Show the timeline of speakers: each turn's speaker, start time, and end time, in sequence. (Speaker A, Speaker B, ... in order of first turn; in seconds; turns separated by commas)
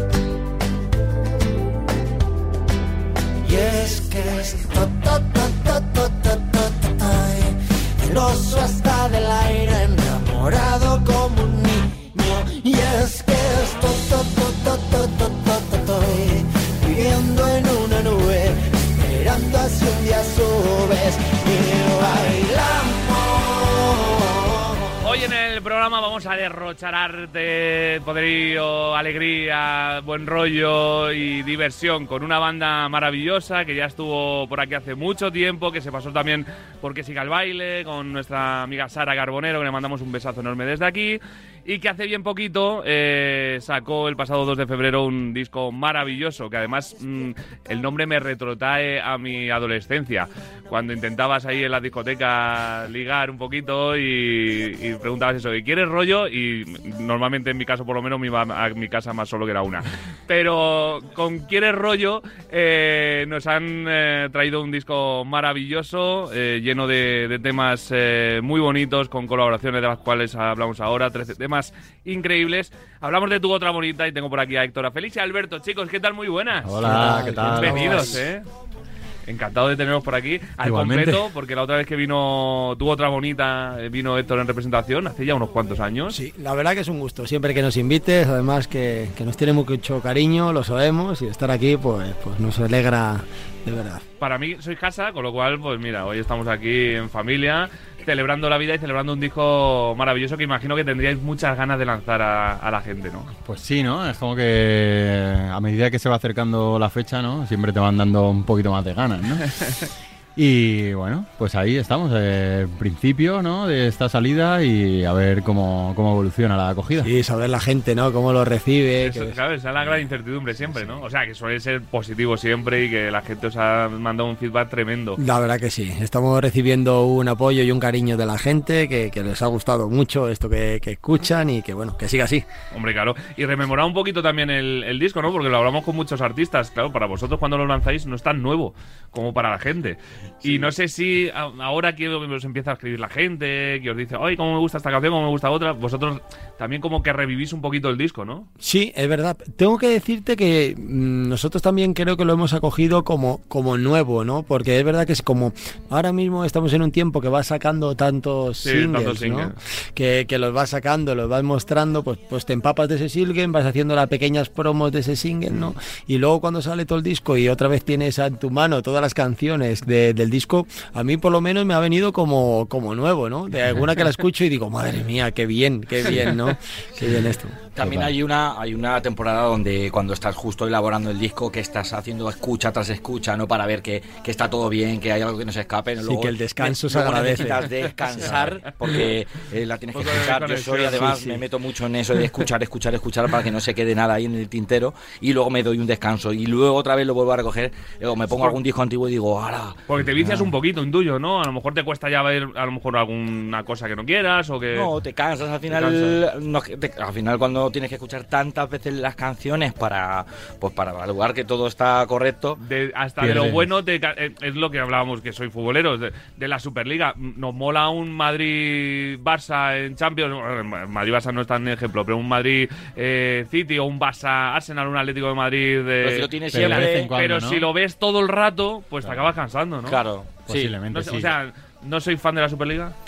Speaker A: 3.4-24.8, Speaker B: 25.0-78.5, Speaker C: 76.6-78.2, Speaker D: 76.8-78.2, Speaker B: 79.2-86.2, Speaker C: 80.6-81.2, Speaker D: 86.1-94.0, Speaker B: 94.2-103.3, Speaker C: 103.4-109.6, Speaker C: 110.3-117.1, Speaker D: 117.0-119.3, Speaker B: 119.0-125.2, Speaker D: 125.2-132.4, Speaker B: 132.7-148.5, Speaker D: 148.6-177.6, Speaker B: 158.6-159.5, Speaker E: 177.7-199.8, Speaker C: 177.8-178.1, Speaker D: 186.0-187.7, Speaker B: 188.2-188.6, Speaker B: 189.9-191.1, Speaker D: 190.9-191.4, Speaker B: 199.9-204.9, Speaker E: 204.7-212.6, Speaker B: 205.7-206.2, Speaker B: 212.6-230.0, Speaker C: 213.2-213.7, Speaker E: 226.0-227.1, Speaker C: 226.5-227.7, Speaker C: 229.0-229.3, Speaker E: 229.9-230.7, Speaker C: 230.5-231.3, Speaker B: 230.9-232.9